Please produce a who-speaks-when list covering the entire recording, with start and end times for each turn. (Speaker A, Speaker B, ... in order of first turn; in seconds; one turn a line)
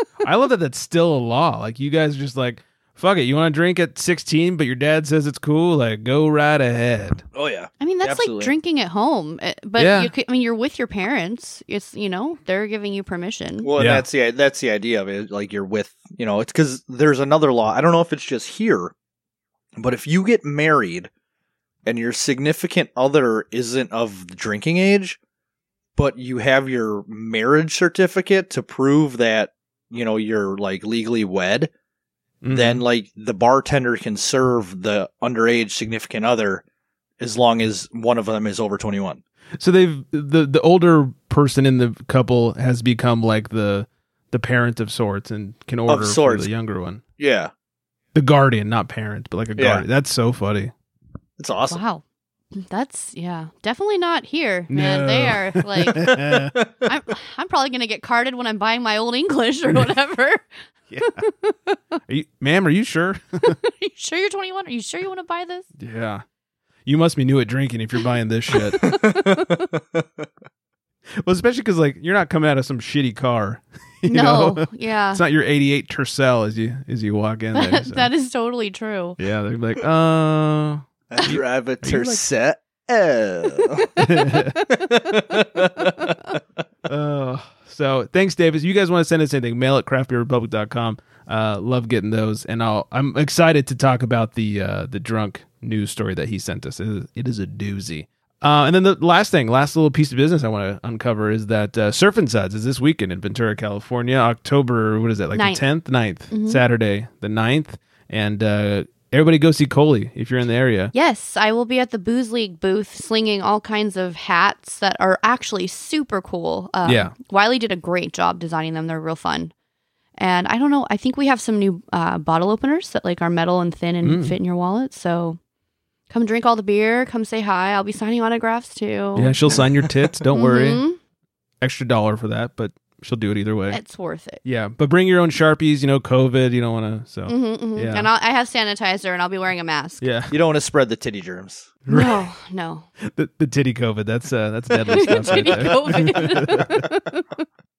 Speaker A: 0.2-7.2
Speaker B: 7.3-8.5
Speaker C: 7.8-13.7
Speaker A: 9.8-10.1
Speaker B: 13.6-18.9
Speaker A: 13.8-14.1
Speaker B: 19.8-21.1
Speaker B: 21.9-25.2
Speaker B: 26.0-31.7
Speaker A: 32.4-32.8
Speaker B: 32.5-36.6
Speaker B: 37.2-39.2
Speaker A: 39.6-47.0
Speaker B: 45.9-46.5
Speaker B: 47.2-47.5
Speaker A: 48.1-50.7
Speaker B: 49.6-49.8
Speaker B: 51.4-51.8
Speaker C: 51.7-52.0
Speaker C: 52.5-56.0
Speaker A: 54.7-56.6
Speaker B: 56.0-56.7
Speaker C: 56.9-60.5
Speaker A: 60.9-61.2
Speaker C: 61.0-61.8
Speaker A: 62.1-63.5
Speaker C: 63.4-65.7
Speaker A: 65.8-66.2
Speaker A: 66.9-68.9
Speaker C: 68.5-69.6
Speaker B: 68.8-70.3
Speaker A: 71.2-78.1
Speaker C: 74.1-75.2
Speaker C: 77.5-79.2
Speaker A: 79.2-82.2
Speaker B: 81.1-84.0
Speaker C: 83.9-84.8
Speaker A: 84.0-84.6
Speaker B: 84.7-86.1
Speaker A: 86.9-110.9
Speaker C: 105.3-105.6
Speaker C: 106.3-106.6
Speaker C: 110.9-119.5
Speaker A: 116.8-117.1
Speaker C: 120.2-125.4
Speaker A: 124.0-124.4
Speaker C: 126.1-129.4
Speaker A: 129.2-130.8
Speaker C: 130.3-131.0
Speaker A: 131.6-133.8
Speaker C: 133.7-134.4
Speaker A: 134.4-138.1
Speaker C: 137.3-140.0
Speaker A: 140.0-140.4
Speaker B: 140.3-141.7
Speaker A: 141.9-142.3
Speaker C: 141.9-142.9
Speaker A: 143.0-146.9
Speaker C: 144.9-147.4